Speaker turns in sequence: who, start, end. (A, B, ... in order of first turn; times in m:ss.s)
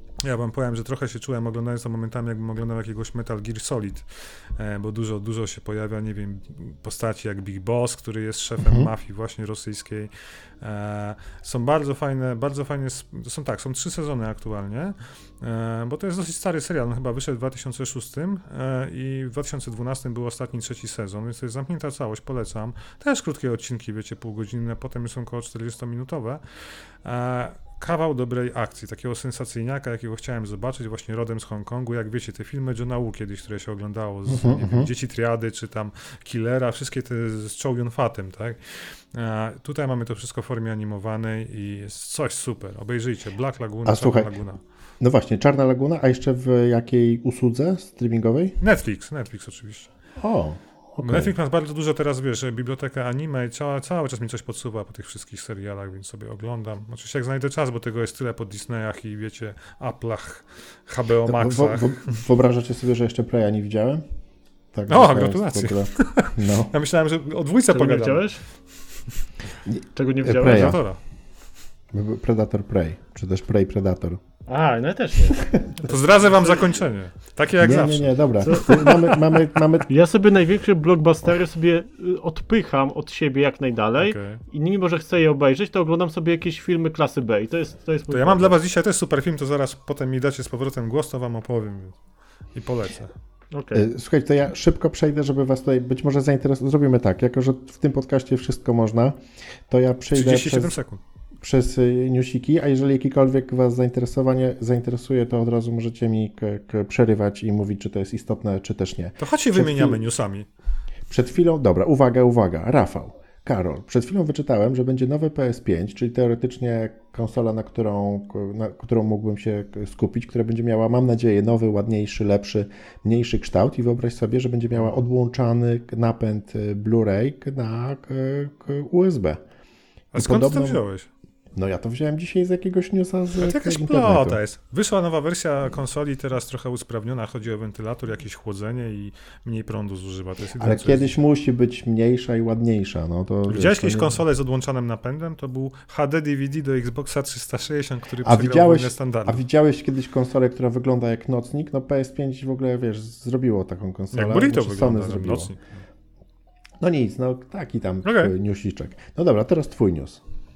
0:00.2-0:44.6 A
0:08.6-0:08.9 B
0:34.3-0:34.9 B
0:43.8-0:44.3 B
0:45.0-0:48.6 B
0:48.6-0:49.9 A
0:50.2-0:51.3 B
0:51.0-1:02.2 A
1:01.2-1:04.0 B
1:04.7-1:06.7 B
1:04.9-1:08.5 A
1:07.7-1:08.4 C
1:09.6-1:10.8 B
1:09.9-1:10.8 C
1:10.3-1:11.0 A
1:11.9-1:14.2 B
1:14.5-1:16.6 C
1:15.4-1:15.8 B
1:15.8-1:19.3 A
1:17.6-1:19.9 B
1:18.4-1:18.9 C
1:19.9-1:28.5 C
1:24.0-1:24.4 A
1:28.1-1:32.0 A
1:32.5-1:33.1 A
1:33.5-1:33.8 C
1:33.7-1:39.2 B
1:39.7-1:40.8 B
1:40.1-1:41.0 A
1:41.4-1:50.0 B
1:49.2-1:50.5 A
1:51.1-2:09.4 B
2:10.1-2:11.1 A
2:10.1-2:10.8 B
2:11.5-2:14.4 B
2:13.4-2:21.1 A
2:20.6-2:24.2 B
2:23.5-2:29.4 A
2:28.2-2:35.5 B
2:34.1-2:35.6 A
2:36.8-2:40.2 B
2:38.0-2:38.3 A